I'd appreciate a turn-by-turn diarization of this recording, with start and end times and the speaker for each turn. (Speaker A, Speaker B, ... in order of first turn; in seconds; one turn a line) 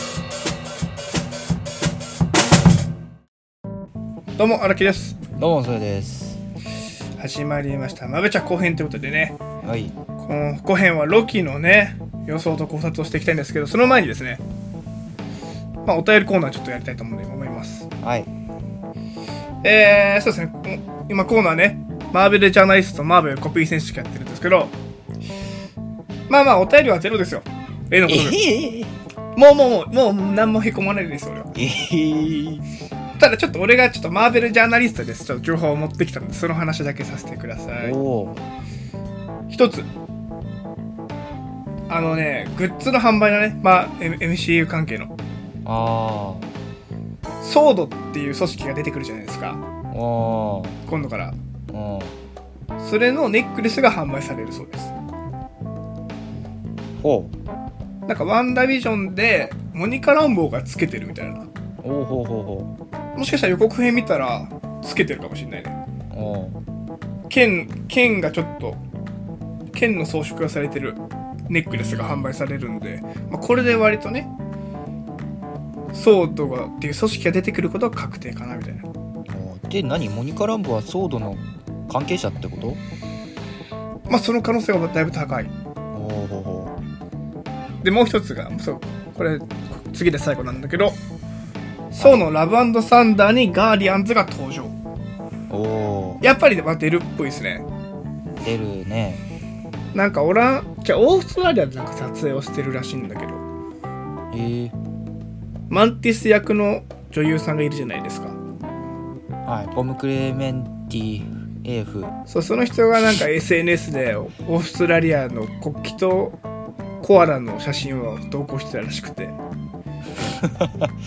Speaker A: 4.4-5.2
Speaker B: 5.4-6.4
Speaker A: 7.2-9.4
Speaker B: 9.6-9.9
Speaker A: 10.2-14.4
Speaker A: 15.8-17.9
Speaker B: 18.0-18.3
Speaker A: 19.6-24.8
Speaker A: 26.3-28.4
Speaker B: 28.1-28.9
Speaker A: 29.4-31.5
Speaker B: 31.6-32.7
Speaker A: 33.2-38.0
Speaker B: 37.8-38.4
Speaker A: 39.5-39.9
Speaker A: 41.9-45.1
Speaker B: 45.6-46.5
Speaker A: 47.4-49.6
Speaker B: 49.9-50.8
Speaker A: 50.9-51.4
Speaker B: 51.7-52.1
Speaker A: 52.8-54.9
Speaker B: 57.0-57.3
Speaker A: 58.1-61.5
Speaker B: 61.8-62.7
Speaker A: 63.2-65.8
Speaker B: 66.1-66.6
Speaker A: 67.3-68.8
Speaker A: 69.7-74.3
Speaker B: 71.7-72.3
Speaker B: 73.5-73.9
Speaker A: 75.9-78.9
Speaker B: 79.3-82.8
Speaker A: 84.1-85.5
Speaker B: 85.9-86.8
Speaker A: 87.8-91.0
Speaker B: 91.9-92.2
Speaker A: 92.0-94.8
Speaker B: 95.5-96.2
Speaker A: 96.2-97.7
Speaker B: 98.4-99.2
Speaker A: 99.9-103.4
Speaker B: 104.3-104.8
Speaker A: 105.7-108.4
Speaker B: 109.5-112.1
Speaker A: 112.3-116.4
Speaker A: 117.0-119.4
Speaker B: 120.4-120.9